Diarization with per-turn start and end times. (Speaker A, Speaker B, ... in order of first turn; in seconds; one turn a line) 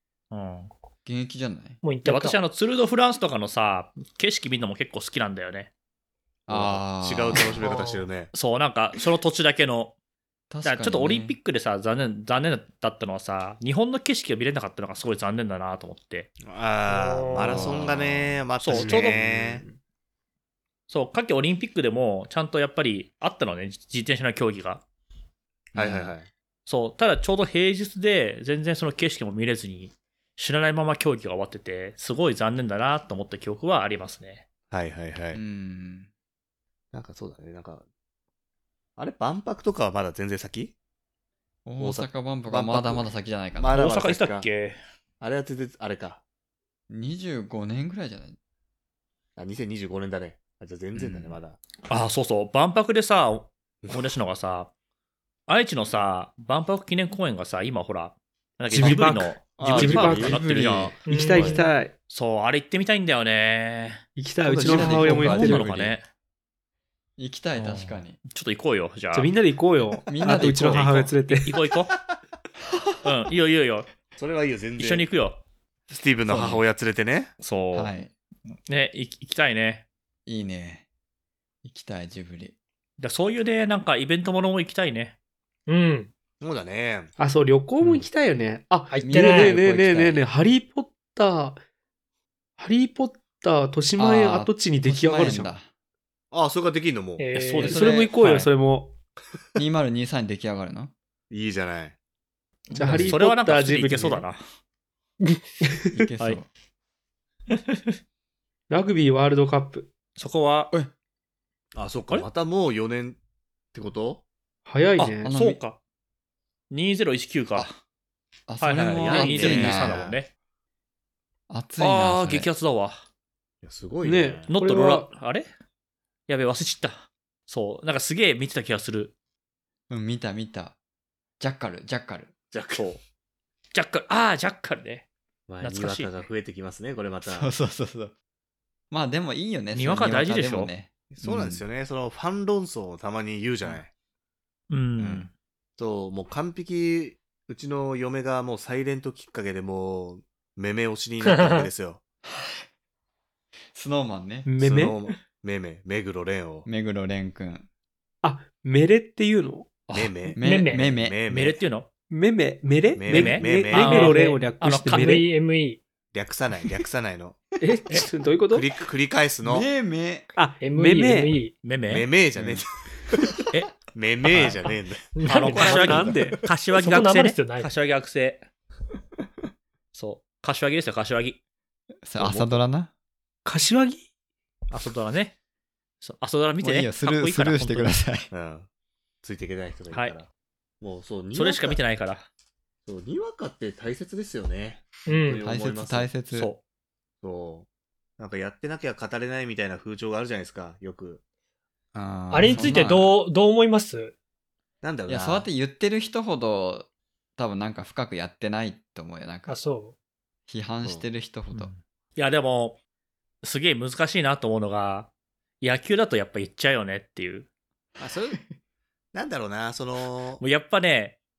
Speaker A: 0.3-0.7
Speaker B: 1.0-1.8
Speaker C: 1.8-2.4
Speaker A: 2.0-5.7
Speaker B: 6.5-7.5
Speaker D: 6.5-8.3
Speaker C: 7.6-8.1
Speaker A: 8.3-9.9
Speaker B: 10.5-11.4
Speaker A: 10.6-16.3
Speaker D: 16.4-19.6
Speaker C: 16.9-17.8
Speaker B: 17.4-18.4
Speaker A: 18.6-19.2
Speaker E: 18.7-19.8
Speaker A: 20.9-24.8
Speaker D: 25.7-26.3
Speaker B: 25.8-26.1
Speaker A: 26.6-34.4
Speaker D: 34.7-35.4
Speaker B: 35.3-36.1
Speaker D: 36.9-37.8
Speaker D: 39.0-40.7
Speaker B: 41.6-43.9
Speaker D: 41.8-44.5
Speaker A: 43.7-44.8
Speaker D: 45.2-46.2
Speaker B: 46.9-48.4
Speaker D: 49.4-51.6
Speaker B: 50.9-51.3
Speaker A: 51.9-54.7
Speaker A: 55.5-60.9
Speaker E: 58.7-60.5
Speaker D: 59.6-60.4
Speaker B: 60.1-60.9
Speaker E: 61.0-61.9
Speaker C: 61.1-61.7
Speaker A: 62.1-64.0
Speaker E: 64.2-65.7
Speaker D: 64.4-65.4
Speaker B: 64.6-66.0
Speaker A: 65.1-66.0
Speaker B: 67.2-68.2
Speaker A: 67.6-69.3
Speaker E: 69.1-71.6
Speaker B: 70.0-71.0
Speaker A: 70.6-72.0
Speaker A: 73.0-73.9
Speaker D: 74.2-75.1
Speaker A: 74.8-75.4
Speaker D: 75.9-77.3
Speaker B: 76.3-76.6
Speaker A: 77.4-77.9
Speaker B: 77.7-78.1
Speaker A: 78.7-79.8
Speaker B: 80.2-80.8
Speaker B: 81.6-82.5
Speaker A: 83.0-85.1
Speaker C: 85.7-86.1
Speaker D: 86.4-87.1
Speaker E: 87.2-91.6
Speaker C: 88.9-89.6
Speaker B: 89.0-90.2
Speaker E: 92.6-95.5
Speaker B: 94.0-95.7
Speaker D: 96.3-97.3
Speaker C: 97.2-98.0
Speaker A: 97.3-98.5
Speaker E: 97.6-98.9
Speaker B: 99.5-100.9
Speaker D: 101.3-101.9
Speaker A: 102.7-104.4
Speaker E: 102.7-104.2
Speaker B: 102.8-103.2
Speaker E: 105.7-106.0
Speaker B: 105.9-106.5
Speaker A: 107.5-107.8
Speaker E: 108.7-109.9
Speaker A: 110.2-110.7
Speaker D: 111.7-113.2
Speaker D: 113.7-114.2
Speaker E: 114.7-115.3
Speaker A: 115.0-115.8
Speaker B: 115.2-115.6
Speaker A: 116.7-117.8
Speaker B: 118.5-120.1
Speaker A: 118.6-120.3
Speaker D: 119.0-120.2
Speaker B: 121.5-122.5
Speaker A: 121.8-123.0
Speaker D: 123.6-124.5
Speaker E: 124.0-125.1
Speaker A: 124.5-125.5
Speaker A: 126.3-129.1
Speaker B: 129.9-130.8
Speaker B: 131.4-132.3
Speaker D: 132.5-132.9
Speaker A: 132.7-133.0
Speaker A: 133.7-135.1
Speaker D: 135.5-137.5
Speaker A: 135.6-136.2
Speaker B: 137.3-138.1
Speaker B: 138.9-141.6
Speaker A: 139.7-140.7
Speaker D: 141.1-143.9
Speaker A: 144.7-145.3
Speaker B: 145.0-145.3
Speaker D: 145.8-152.0
Speaker C: 151.2-151.7
Speaker B: 152.3-152.6
Speaker B: 153.7-154.5
Speaker E: 154.4-155.0
Speaker D: 154.6-156.7
Speaker B: 156.7-157.7
Speaker E: 158.2-159.7
Speaker D: 159.9-161.6
Speaker B: 160.3-161.2
Speaker C: 160.4-161.0
Speaker A: 161.3-161.9
Speaker E: 162.1-165.2
Speaker D: 162.9-164.1
Speaker A: 163.1-165.2
Speaker C: 163.9-165.8
Speaker D: 166.1-167.4
Speaker E: 167.6-168.7
Speaker D: 168.5-169.7
Speaker B: 169.4-170.3
Speaker E: 170.3-171.4
Speaker C: 170.6-171.5
Speaker A: 171.6-172.1
Speaker D: 171.9-173.3
Speaker B: 172.3-172.6
Speaker D: 173.9-175.1
Speaker C: 175.1-176.1
Speaker A: 175.2-178.4
Speaker E: 175.5-176.5
Speaker B: 175.5-176.3
Speaker C: 176.7-177.7
Speaker A: 179.9-181.4
Speaker B: 182.0-182.9
Speaker D: 182.2-182.5
Speaker E: 183.4-184.1
Speaker A: 184.7-185.3
Speaker A: 186.0-188.0
Speaker B: 186.6-188.3
Speaker D: 188.3-188.7
Speaker D: 189.2-190.3
Speaker D: 190.8-191.8
Speaker A: 191.3-192.3
Speaker D: 192.8-196.1
Speaker C: 195.1-195.4
Speaker B: 195.4-196.5
Speaker A: 196.3-196.6
Speaker D: 197.2-197.7
Speaker D: 198.2-201.2
Speaker B: 201.9-203.2
Speaker C: 202.3-204.1
Speaker A: 202.4-202.7
Speaker D: 204.8-205.5
Speaker B: 205.1-209.6
Speaker C: 209.5-209.9
Speaker B: 210.5-211.7
Speaker A: 211.5-212.8
Speaker A: 213.4-215.1
Speaker A: 215.6-217.5
Speaker D: 218.0-218.4
Speaker D: 219.1-220.4
Speaker A: 220.4-221.2